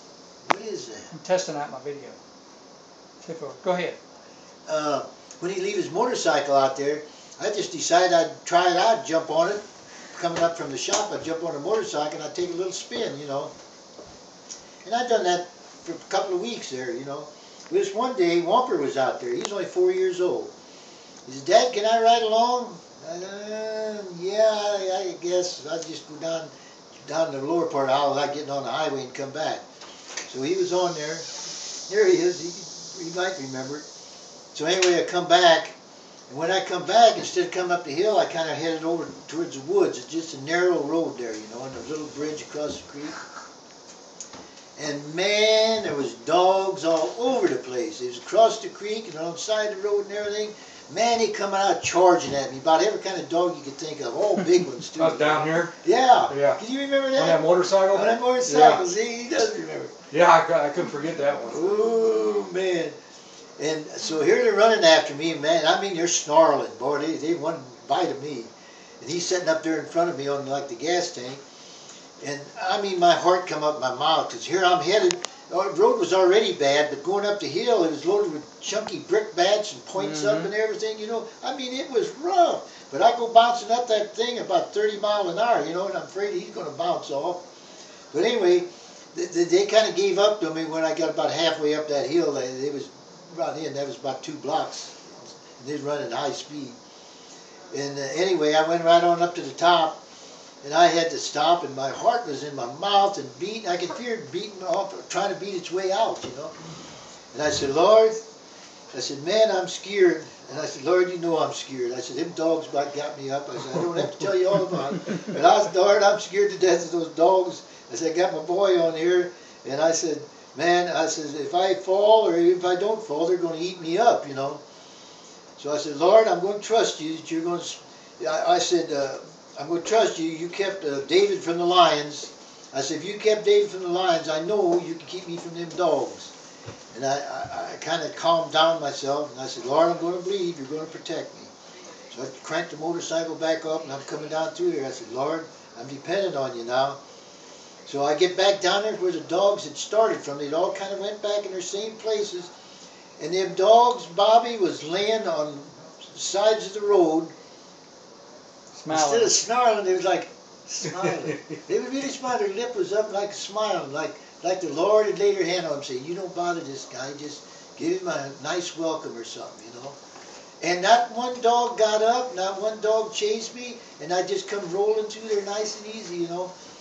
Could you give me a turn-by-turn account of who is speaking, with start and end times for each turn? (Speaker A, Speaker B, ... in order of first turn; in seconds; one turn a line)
Speaker A: 0.5-1.1
Speaker B: 1.1-2.2
Speaker B: 3.2-4.0
Speaker A: 4.7-9.6
Speaker A: 10.1-13.5
Speaker A: 14.8-20.5
Speaker A: 21.3-26.5
Speaker A: 27.1-29.6
Speaker A: 30.2-31.3
Speaker A: 31.9-33.9
Speaker A: 34.5-35.8
Speaker A: 36.3-43.2
Speaker A: 44.8-60.0
Speaker C: 55.0-55.7
Speaker C: 56.3-56.6
Speaker C: 57.1-58.8
Speaker C: 60.1-61.6
Speaker A: 61.5-63.0
Speaker A: 63.6-68.5
Speaker A: 69.0-71.4
Speaker A: 72.2-87.4
Speaker A: 88.1-96.8
Speaker A: 97.7-100.0
Speaker A: 100.6-106.5
Speaker A: 107.3-108.2
Speaker A: 108.9-124.6
Speaker A: 125.6-136.3
Speaker A: 136.9-141.5
Speaker A: 142.1-147.0
Speaker A: 147.9-152.5
Speaker A: 153.2-157.3
Speaker B: 158.8-159.3
Speaker A: 158.9-170.0
Speaker A: 170.6-176.5